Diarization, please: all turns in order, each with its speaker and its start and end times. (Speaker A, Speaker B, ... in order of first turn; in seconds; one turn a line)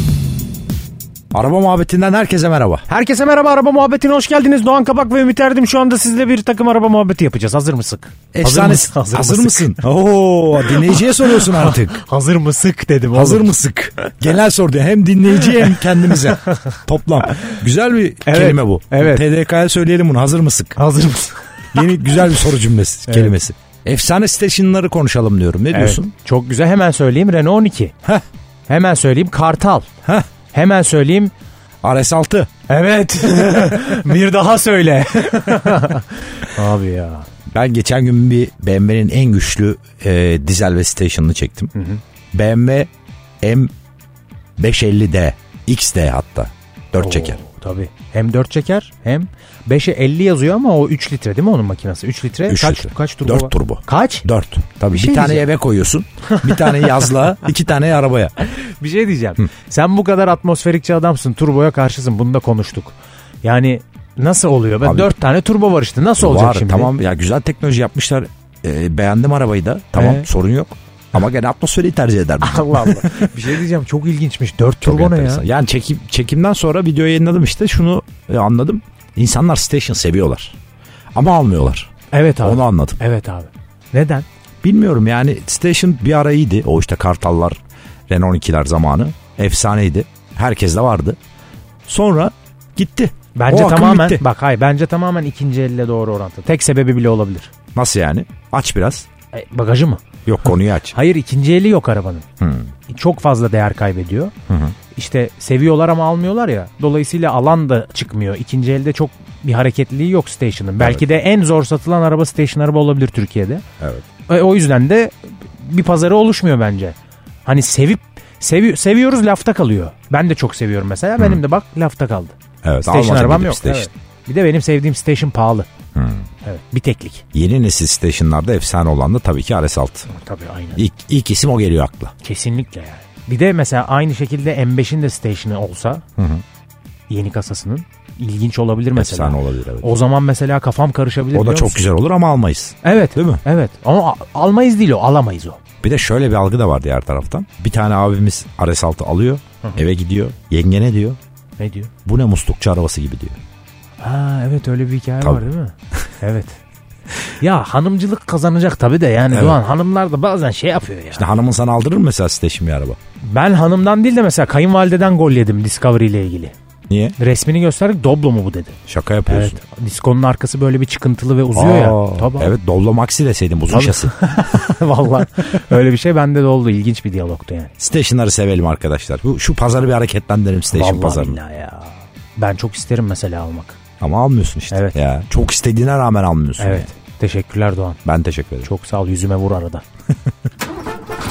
Speaker A: 1.3-2.9
Speaker B: 2.9-9.8
Speaker A: 8.3-12.0
Speaker B: 10.7-13.5
Speaker A: 13.1-20.8
Speaker B: 18.2-19.3
Speaker B: 20.8-21.4
Speaker A: 21.7-26.1
Speaker B: 23.1-23.4
Speaker B: 25.7-28.0
Speaker B: 28.7-29.9
Speaker B: 30.5-31.3
Speaker A: 31.8-32.5
Speaker B: 32.7-37.3
Speaker A: 37.5-41.7
Speaker B: 41.8-42.0
Speaker A: 42.3-42.9
Speaker A: 43.4-43.7
Speaker A: 44.6-47.4
Speaker B: 47.0-54.2
Speaker A: 52.5-58.4
Speaker B: 54.9-55.5
Speaker B: 56.4-57.0
Speaker B: 58.4-66.9
Speaker A: 64.8-65.1
Speaker A: 66.2-73.3
Speaker B: 70.0-70.3
Speaker B: 72.4-75.4
Speaker A: 74.8-80.6
Speaker A: 81.2-83.0
Speaker B: 82.1-84.3
Speaker A: 84.6-87.6
Speaker A: 88.1-91.2
Speaker A: 91.9-94.2
Speaker B: 93.3-97.5
Speaker A: 97.8-99.1
Speaker B: 99.3-100.0
Speaker A: 100.3-101.0
Speaker B: 100.9-102.2
Speaker A: 102.4-102.7
Speaker B: 102.9-104.3
Speaker A: 104.5-104.8
Speaker B: 105.0-113.6
Speaker A: 113.8-114.1
Speaker B: 114.3-125.7
Speaker A: 122.6-123.9
Speaker A: 126.0-126.3
Speaker B: 126.4-127.2
Speaker A: 127.3-130.1
Speaker B: 130.1-130.8
Speaker A: 130.8-132.1
Speaker B: 132.2-136.0
Speaker A: 136.2-136.4
Speaker B: 137.1-141.8
Speaker A: 138.9-139.9
Speaker A: 141.3-143.4
Speaker B: 142.8-145.6
Speaker A: 145.8-151.2
Speaker B: 151.6-151.9
Speaker A: 152.1-153.4
Speaker B: 154.0-156.6
Speaker B: 157.2-161.3
Speaker A: 159.3-159.6
Speaker A: 161.2-163.0
Speaker B: 163.2-166.5
Speaker A: 166.9-167.2
Speaker B: 167.2-168.8
Speaker A: 168.9-169.6
Speaker B: 169.3-172.5
Speaker A: 171.5-174.2
Speaker B: 173.7-177.7
Speaker A: 177.8-181.4
Speaker B: 180.7-183.8
Speaker A: 184.0-186.9
Speaker B: 184.7-185.0
Speaker B: 186.6-188.0
Speaker A: 188.1-188.7
Speaker B: 188.6-189.8